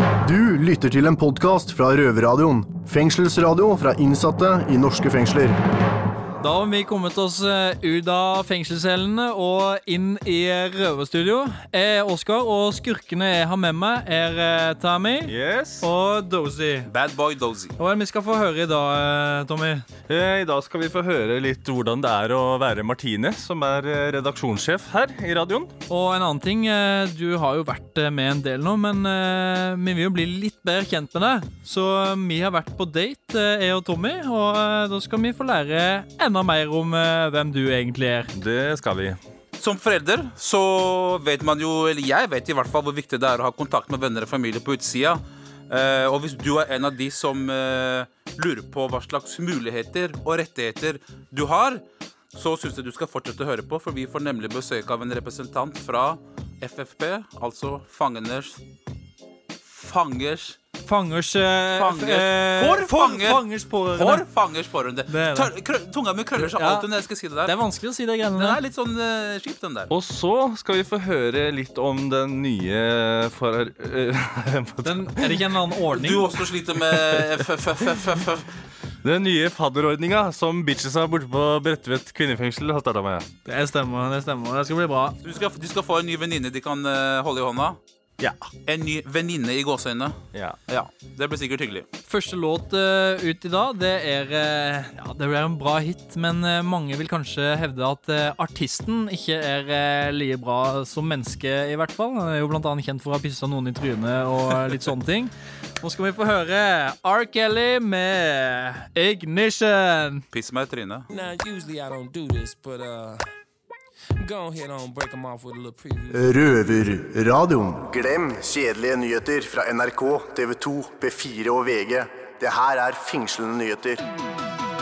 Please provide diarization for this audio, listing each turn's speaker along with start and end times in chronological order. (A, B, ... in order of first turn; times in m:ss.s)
0:00.2-0:05.6 A
0:06.4-0:16.9 B
0:15.2-0:15.9 C
0:16.9-0:17.7 D
0:17.8-0:19.8 B
0:20.1-0:25.7 C
0:25.9-0:38.3 B
0:38.3-0:39.2 C
0:39.6-0:51.8 D
0:52.3-0:58.6 D
0:59.6-1:00.6 D
1:00.8-1:04.3 B
1:01.8-1:07.6 D
1:05.1-1:05.5 B
1:06.4-1:06.9 B
1:07.4-1:08.6 B
1:08.3-1:09.9 D
1:09.9-1:15.6 C
1:14.8-1:16.3 B
1:15.9-1:18.5 D
1:16.9-1:17.4 C
1:19.0-1:23.3 C
1:23.4-1:25.2 B
1:25.2-1:27.8 D
1:28.7-1:30.2 D
1:30.7-1:31.9 D
1:32.1-1:50.3 B
1:50.3-1:51.1 D
1:51.1-1:53.3 E
1:54.2-1:56.4 E
1:56.1-2:04.0 A